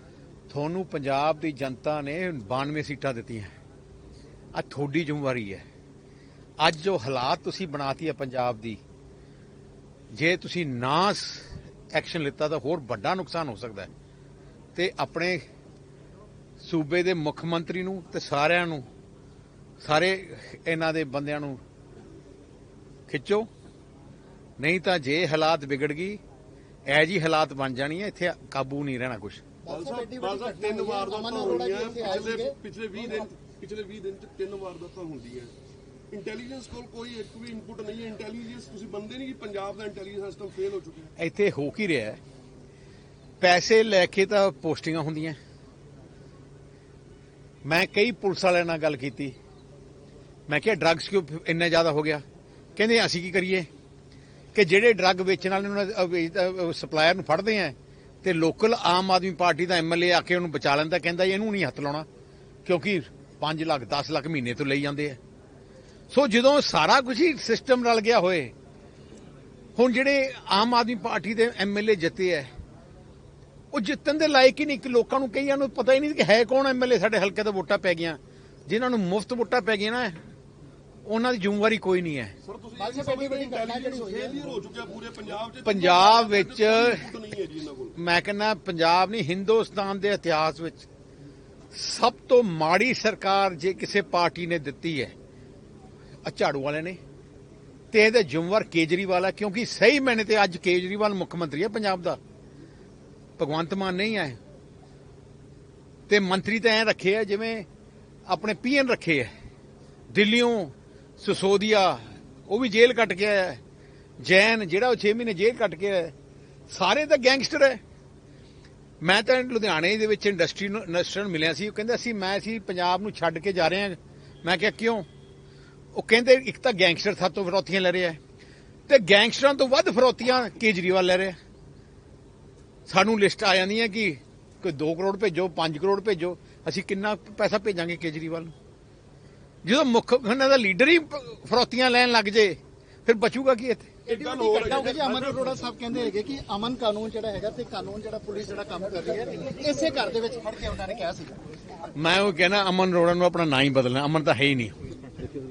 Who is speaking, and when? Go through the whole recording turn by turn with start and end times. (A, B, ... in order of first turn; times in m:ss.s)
0:00.5-0:03.6 A
0:04.5-0:05.6 A
0:06.6-0:08.8 A
0:10.1-0:13.9 A
0:14.8-0:15.4 A
0:16.6-0:18.9 A
0:19.8-0:21.6 A
0:23.1-0:23.5 A
0:24.6-0:26.2 A
0:26.9-0:29.4 A
0:29.6-0:32.6 B
0:29.7-0:35.5 C
0:36.1-0:41.1 C
0:41.2-0:42.2 A
0:43.4-0:45.4 A
0:47.6-0:49.3 A
0:50.5-0:52.2 A
0:52.8-0:53.7 A
0:54.5-1:02.1 A
1:02.6-1:05.2 A
1:06.1-1:08.5 A
1:09.8-1:12.5 A
1:13.7-1:20.2 A
1:21.0-1:22.3 A
1:22.4-1:28.0 C
1:22.8-1:24.4 B
1:25.6-1:27.1 A
1:28.0-1:30.9 A
1:31.7-1:35.1 A
1:36.2-1:37.0 A
1:37.9-1:42.2 A
1:43.4-1:44.4 A
1:46.1-1:47.7 A
1:48.3-1:49.3 A
1:50.1-1:53.6 A
1:54.2-1:56.1 A
1:56.7-1:57.8 A
1:59.0-2:05.1 A
2:05.9-2:08.2 A
2:08.9-2:11.4 A
2:12.9-2:18.5 A
2:19.6-2:24.3 A
2:24.1-2:25.6 C
2:24.2-2:31.3 B
2:31.9-2:34.8 A